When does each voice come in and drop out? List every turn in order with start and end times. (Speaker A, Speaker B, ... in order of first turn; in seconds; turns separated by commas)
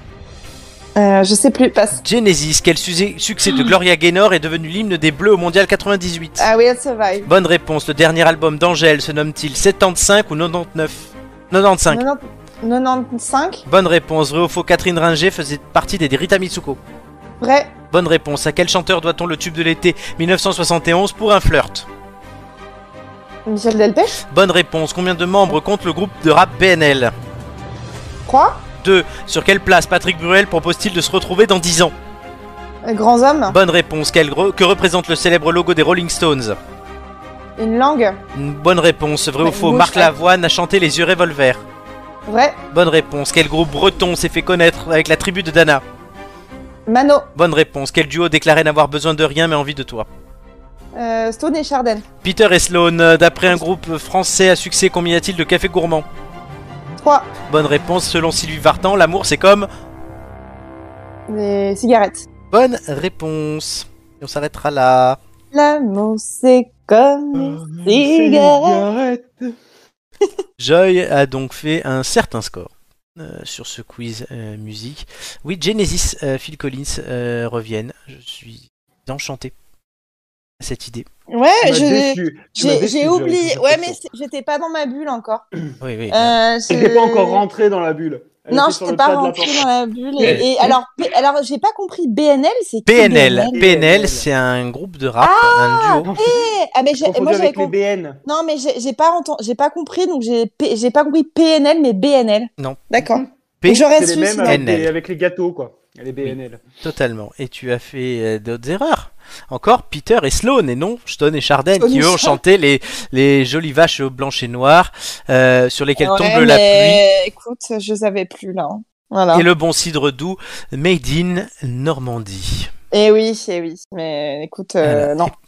Speaker A: 1.0-2.0, Speaker B: 2.0-6.5, Speaker A: 6.4-7.3, Speaker B: 7.3-12.0, Speaker A: 11.9-13.6, Speaker B: 13.7-16.8, Speaker A: 17.4-17.7, Speaker B: 17.9-21.9, Speaker A: 23.5-24.2, Speaker B: 24.3-27.1, Speaker A: 28.3-28.6, Speaker B: 28.8-31.9, Speaker A: 32.8-33.6, Speaker B: 33.5-36.6, Speaker A: 37.6-38.2, Speaker B: 38.3-41.6, Speaker A: 39.4-40.1, Speaker A: 42.3-42.6, Speaker B: 42.7-45.8, Speaker A: 46.9-47.3, Speaker B: 47.4-50.1, Speaker A: 51.0-52.0, Speaker B: 52.2-56.1, Speaker A: 57.0-57.3, Speaker B: 57.5-59.7, Speaker A: 61.3-62.2, Speaker B: 62.5-65.2, Speaker A: 65.5-68.8, Speaker C: 67.3-69.5, Speaker B: 70.6-79.5, Speaker B: 80.6-81.1, Speaker A: 81.3-85.4, Speaker C: 81.6-84.0, Speaker B: 85.8-86.4, Speaker A: 86.1-87.4, Speaker C: 86.7-89.6, Speaker A: 88.5-93.6, Speaker C: 90.2-90.7, Speaker B: 92.9-96.1, Speaker C: 93.5-94.3, Speaker A: 95.2-97.7, Speaker C: 96.1-96.4, Speaker C: 97.0-98.2, Speaker A: 98.2-104.6, Speaker B: 102.6-102.8, Speaker B: 103.6-103.9, Speaker C: 103.9-106.6, Speaker B: 104.4-104.9, Speaker B: 106.2-117.0, Speaker A: 111.8-112.4, Speaker A: 116.0-119.5, Speaker B: 119.3-122.7, Speaker A: 122.9-125.3, Speaker B: 124.8-125.3